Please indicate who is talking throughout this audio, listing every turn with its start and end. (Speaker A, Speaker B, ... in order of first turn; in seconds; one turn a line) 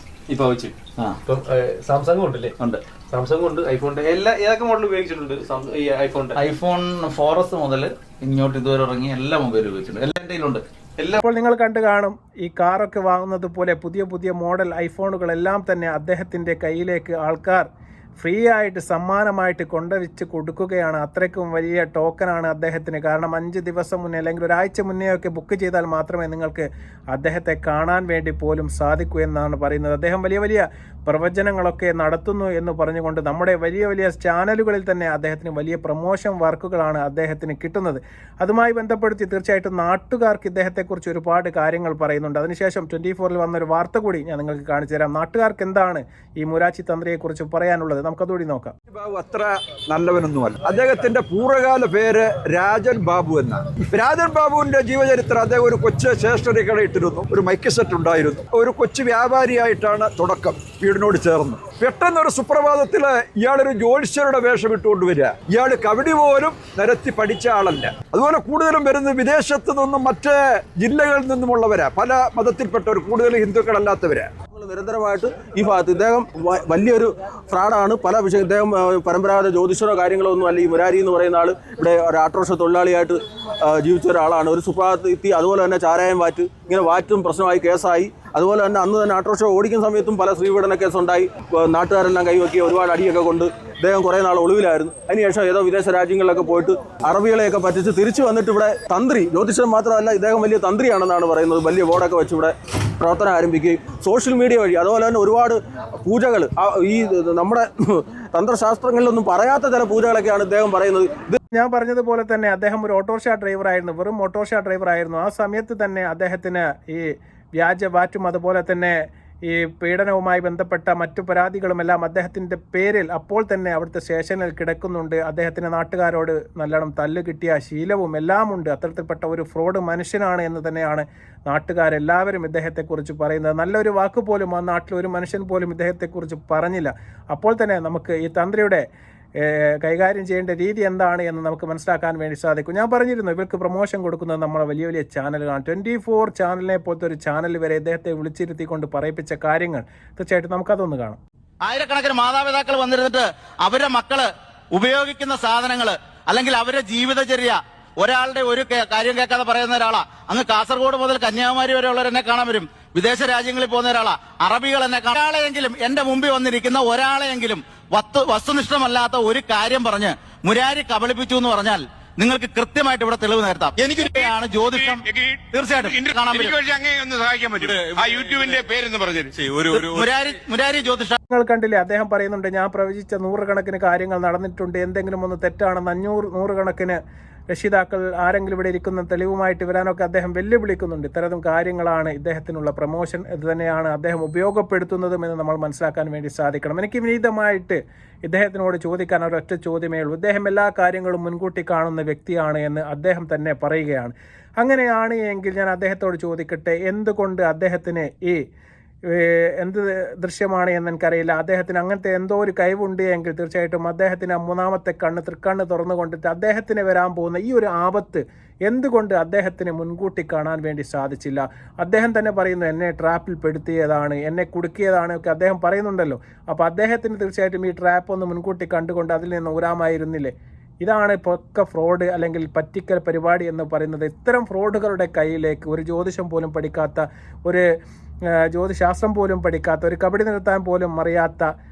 Speaker A: 0.3-0.8
Speaker A: 1.3-6.4
Speaker B: 6.4-10.6
Speaker C: 11.2-17.7
Speaker C: 18.2-48.8
Speaker D: 48.9-74.3
Speaker E: 74.5-111.4
Speaker C: 111.5-138.8
Speaker C: 139.4-151.2
Speaker F: 151.6-176.6
Speaker G: 174.0-180.1
Speaker F: 177.5-178.5
Speaker F: 179.7-181.2
Speaker C: 181.3-187.0
Speaker C: 187.5-208.4
Speaker C: 209.1-237.7
Speaker C: 238.4-241.5